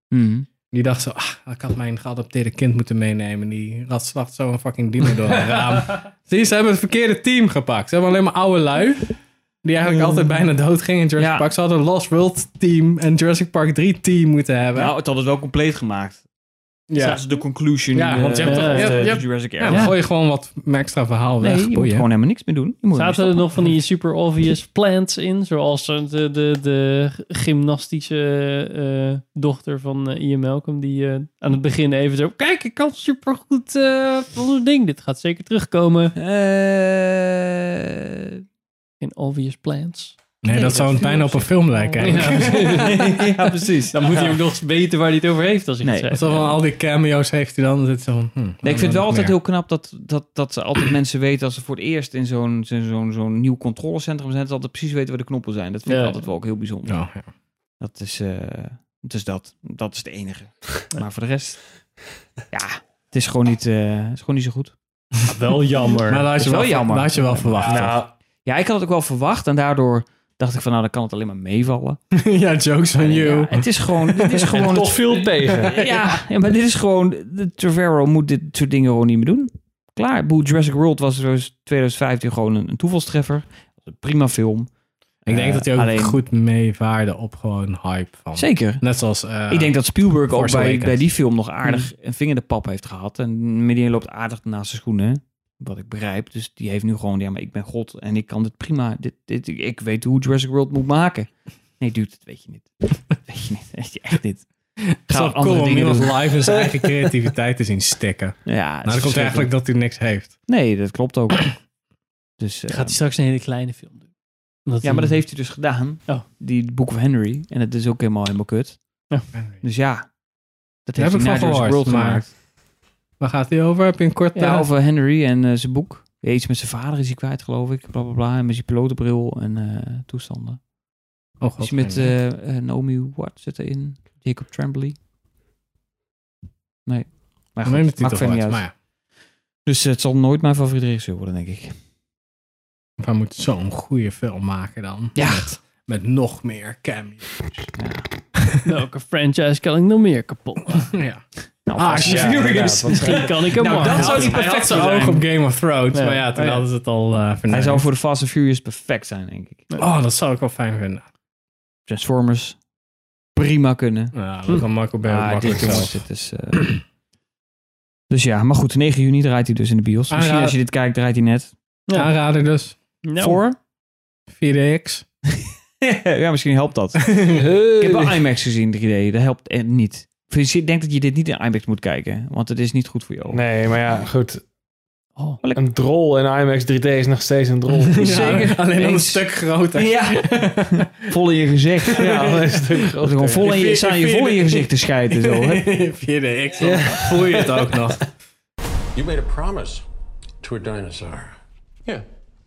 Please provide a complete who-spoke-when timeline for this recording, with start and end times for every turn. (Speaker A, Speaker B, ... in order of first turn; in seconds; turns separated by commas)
Speaker A: 0.1-0.5, Speaker B: 0.7-14.9, Speaker A: 11.2-11.5, Speaker A: 14.8-16.2, Speaker B: 16.9-17.2, Speaker A: 17.0-19.9, Speaker B: 17.9-22.1, Speaker C: 18.4-19.1, Speaker C: 19.7-19.9, Speaker A: 21.4-23.5, Speaker C: 22.9-36.1, Speaker A: 36.2-38.4, Speaker C: 39.0-46.5, Speaker B: 40.4-43.0, Speaker A: 42.0-44.4, Speaker A: 45.8-46.4, Speaker B: 46.1-49.4, Speaker A: 48.6-57.0, Speaker C: 55.9-56.2, Speaker B: 56.9-57.2, Speaker A: 57.8-61.6, Speaker A: 62.5-64.8, Speaker C: 65.2-66.3, Speaker B: 66.1-68.0, Speaker A: 66.4-72.0, Speaker D: 67.7-68.1, Speaker B: 72.2-74.6, Speaker A: 73.0-84.7, Speaker D: 74.6-75.8, Speaker B: 75.7-76.1, Speaker A: 85.2-86.2, Speaker B: 85.3-91.0, Speaker A: 88.3-88.8, Speaker A: 89.5-101.3, Speaker A: 101.8-104.5, Speaker B: 105.1-110.4, Speaker A: 105.1-106.4, Speaker A: 108.5-109.5, Speaker A: 110.5-111.5, Speaker A: 112.4-113.0, Speaker C: 112.7-114.1, Speaker C: 114.7-115.2, Speaker A: 114.8-118.8, Speaker A: 119.6-120.1, Speaker A: 120.9-122.3, Speaker B: 121.0-122.2, Speaker B: 123.2-124.7, Speaker A: 124.3-130.6, Speaker B: 131.4-132.1, Speaker A: 131.6-135.0, Speaker A: 136.9-138.7, Speaker B: 137.7-138.7, Speaker A: 139.7-141.7, Speaker B: 143.0-147.4, Speaker A: 145.2-145.5, Speaker A: 147.7-148.0, Speaker C: 148.7-150.9, Speaker B: 150.9-151.2, Speaker A: 151.7-155.3, Speaker B: 151.7-152.9, Speaker D: 151.9-154.3, Speaker C: 152.8-154.4, Speaker B: 153.9-157.8, Speaker C: 155.9-156.7, Speaker A: 157.5-159.7, Speaker B: 159.8-161.0, Speaker A: 161.9-162.6, Speaker A: 163.3-164.1, Speaker B: 164.1-166.0, Speaker A: 165.0-166.8, Speaker A: 168.1-171.5, Speaker B: 170.1-170.6, Speaker C: 171.9-172.1, Speaker B: 171.9-172.8, Speaker C: 173.0-173.4, Speaker A: 173.2-173.6, Speaker B: 174.3-175.1, Speaker A: 175.8-183.4, Speaker D: 177.4-178.2, Speaker D: 183.3-184.4, Speaker D: 185.6-188.6, Speaker B: 187.8-190.9, Speaker A: 188.0-195.7, Speaker D: 191.9-193.5, Speaker B: 191.9-198.0, Speaker D: 196.6-197.7, Speaker E: 198.9-199.8, Speaker E: 200.4-202.0